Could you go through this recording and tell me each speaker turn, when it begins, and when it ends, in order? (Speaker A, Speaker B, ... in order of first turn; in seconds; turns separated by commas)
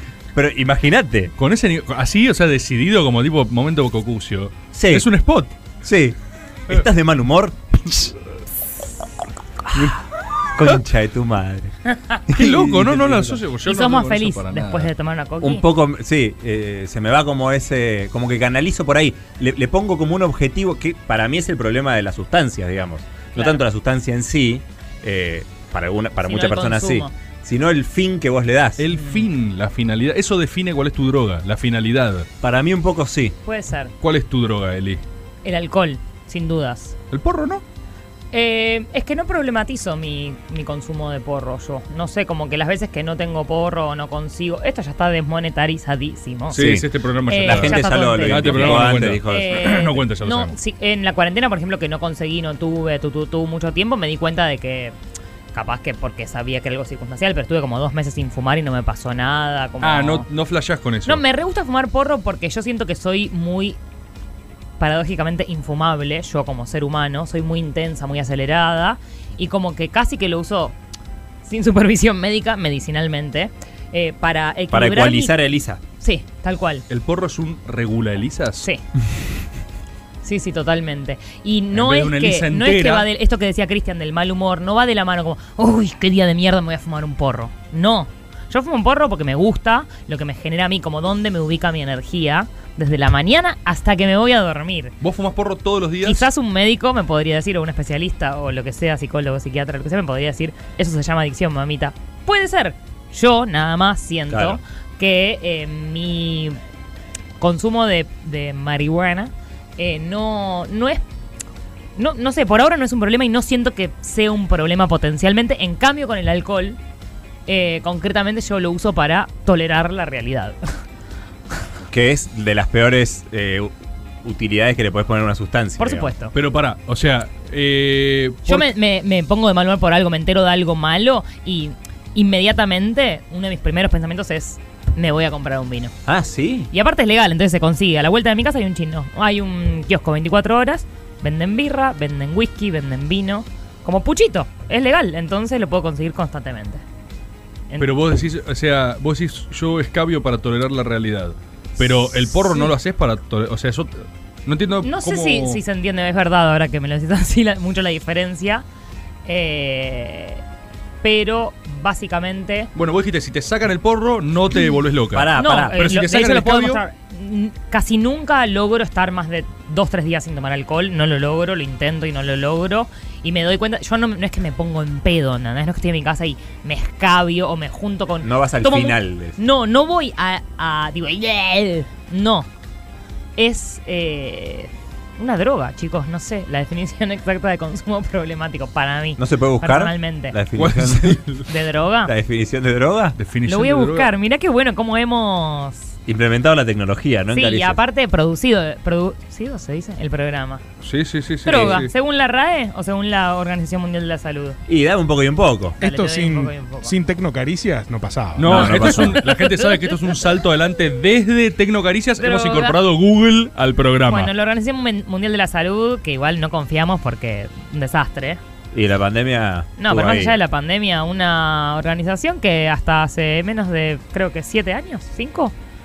Speaker A: 0.3-1.3, Speaker B: 1.4-5.5, Speaker A: 4.7-5.0, Speaker A: 5.8-6.2, Speaker A: 6.7-8.1, Speaker A: 10.6-11.7, Speaker C: 11.9-12.2, Speaker A: 12.3-13.4, Speaker B: 12.3-14.9, Speaker C: 13.6-15.6, Speaker A: 15.4-28.8, Speaker C: 23.3-23.6, Speaker C: 26.2-27.1, Speaker B: 28.8-32.3, Speaker C: 28.9-29.2, Speaker A: 32.4-33.4, Speaker C: 33.4-33.9, Speaker B: 34.0-35.0, Speaker C: 35.4-36.9, Speaker B: 37.1-37.6, Speaker C: 38.3-46.7, Speaker B: 46.5-50.5, Speaker A: 46.5-46.9, Speaker C: 47.2-54.9, Speaker A: 47.4-49.9, Speaker C: 55.5-60.3, Speaker B: 59.8-61.2, Speaker C: 61.0-63.8, Speaker C: 64.8-70.7, Speaker C: 71.4-75.3, Speaker A: 74.7-75.8, Speaker C: 76.0-76.8, Speaker B: 76.9-78.7, Speaker C: 80.2-94.9, Speaker B: 81.7-83.1, Speaker B: 95.0-96.3, Speaker C: 96.0-106.6, Speaker A: 104.3-104.6, Speaker C: 107.4-111.0, Speaker C: 112.0-116.8, Speaker C: 117.5-120.6, Speaker A: 121.9-126.1, Speaker C: 125.8-126.3, Speaker B: 126.3-128.7, Speaker C: 128.4-135.9, Speaker A: 136.1-136.7, Speaker C: 136.7-146.8, Speaker B: 147.8-155.6, Speaker C: 152.1-152.7, Speaker C: 154.8-158.6, Speaker C: 159.2-160.4, Speaker C: 161.0-162.7, Speaker B: 162.7-166.8, Speaker A: 165.1-165.8, Speaker C: 165.3-182.5, Speaker A: 178.2-179.4, Speaker C: 183.4-190.3, Speaker A: 189.2-191.2, Speaker B: 190.5-191.5, Speaker C: 191.5-192.1, Speaker A: 192.1-193.2, Speaker B: 193.2-194.1, Speaker C: 193.4-195.9, Speaker A: 196.1-197.8, Speaker C: 197.3-200.6, Speaker B: 200.8-201.9, Speaker C: 201.4-204.6, Speaker A: 204.7-205.8, Speaker C: 205.8-206.9, Speaker D: 205.8-208.9, Speaker B: 208.3-214.3, Speaker A: 208.4-209.2, Speaker C: 208.8-210.2, Speaker C: 212.2-212.8, Speaker C: 214.1-218.4, Speaker A: 218.7-220.4, Speaker C: 219.8-225.5